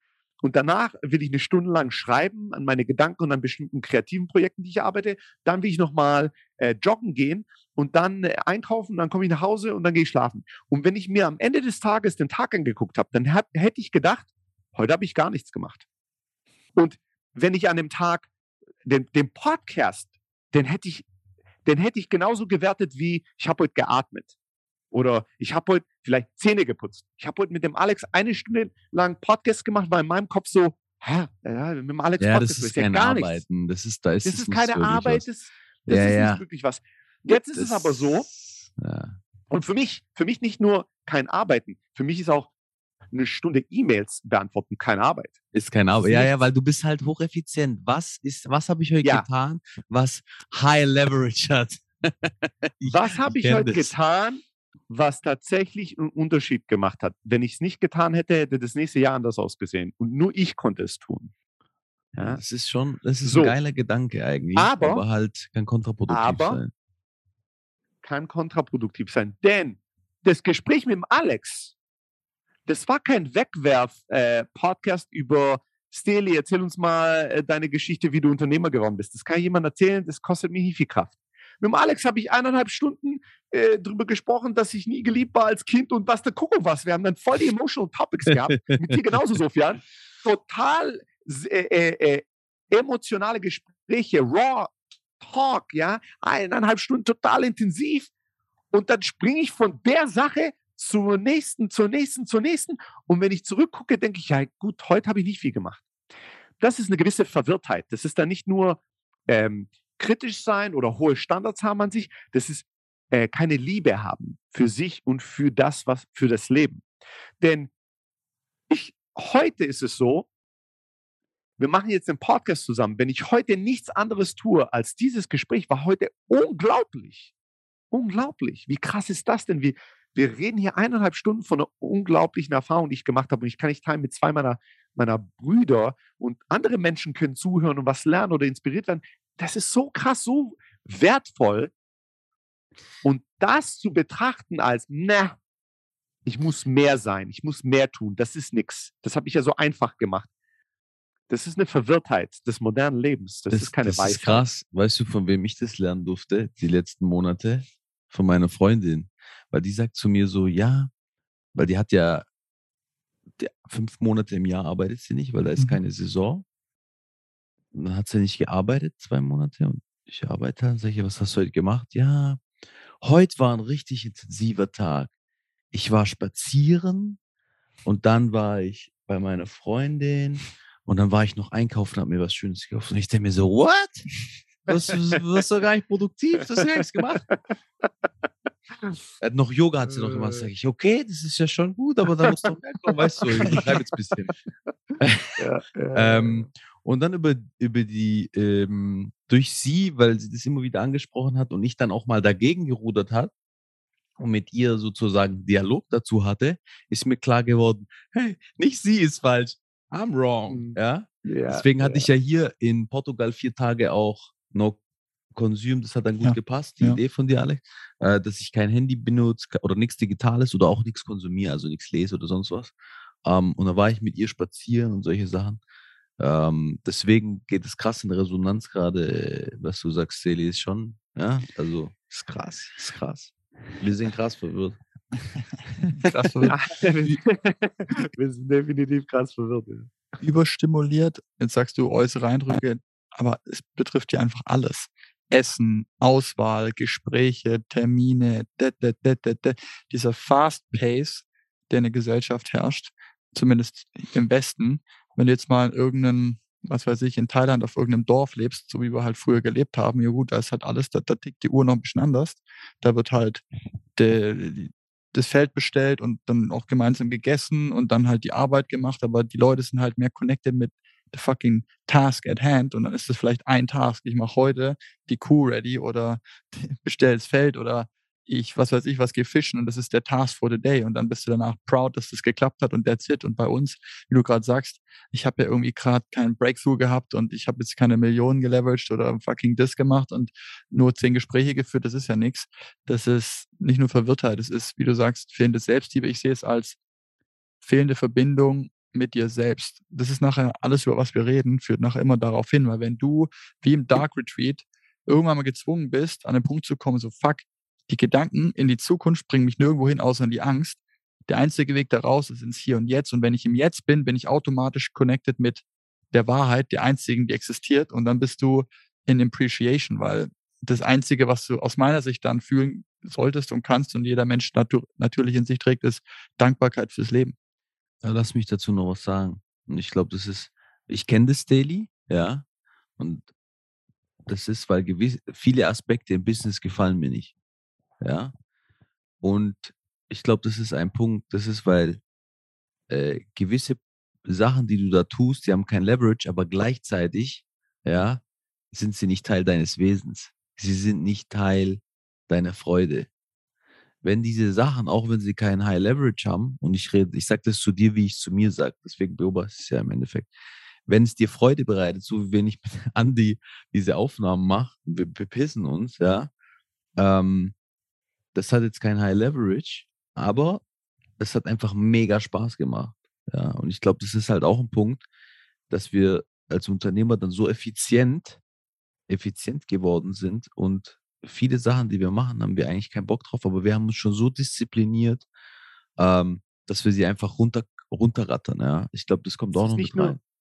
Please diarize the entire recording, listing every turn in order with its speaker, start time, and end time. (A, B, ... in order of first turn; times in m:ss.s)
0:00.4-0:15.8 A
0:16.7-0:18.3 A
0:18.8-0:21.0 A
0:21.6-0:24.3 A
0:24.9-0:33.4 A
0:32.2-0:35.2 B
0:34.2-0:38.3 A
0:35.9-0:36.4 B
0:37.5-0:39.2 B
0:39.5-0:42.5 A
0:43.1-0:45.3 A
0:45.5-0:53.9 B
0:46.0-0:46.4 A
0:52.9-1:01.3 A
1:02.1-1:02.4 A
1:02.3-1:06.7 B
1:03.2-1:03.5 A
1:04.6-1:05.0 A
1:06.1-1:06.6 A
1:08.0-1:11.7 A
1:12.7-1:38.1 A
1:28.3-1:29.0 B
1:38.7-1:45.8 A
1:46.6-1:56.8 A
1:57.4-1:57.7 A
1:58.7-2:00.3 A
2:01.6-2:07.3 A
2:07.9-2:21.7 A
2:23.0-2:25.4 A
2:26.2-2:30.3 A
2:31.3-2:34.5 A
2:33.5-2:40.9 B
2:41.5-2:42.2 B
2:43.4-2:46.4 B
2:47.7-2:52.4 B
2:53.0-2:55.1 B
2:55.7-2:57.2 B
2:57.8-3:04.1 B
3:04.6-3:07.3 B
3:09.2-3:14.3 B
3:09.9-3:10.5 A
3:12.9-3:13.7 A
3:15.0-3:15.4 B
3:15.4-3:16.5 A
3:15.9-3:23.3 B
3:24.2-3:34.8 B
3:30.5-3:32.1 A
3:35.3-3:42.7 B
3:36.2-3:37.0 C
3:43.2-3:45.6 B
3:46.2-3:54.8 B
3:55.8-3:57.2 C
3:56.4-3:59.9 A
4:00.2-4:23.4 C
4:24.0-4:56.8 C
4:57.6-5:27.3 C
5:28.0-5:32.4 B
5:33.0-5:33.3 B
5:34.2-5:37.3 B
5:38.0-5:38.3 B
5:39.2-5:42.0 B
5:42.9-5:53.1 B
5:54.0-6:00.3 B
6:00.9-6:06.3 B
6:07.0-6:07.5 B
6:08.3-6:10.6 B
6:11.2-6:15.0 B
6:15.7-6:18.4 B
6:19.1-6:25.3 B
6:26.0-6:30.2 B
6:29.5-6:30.2 A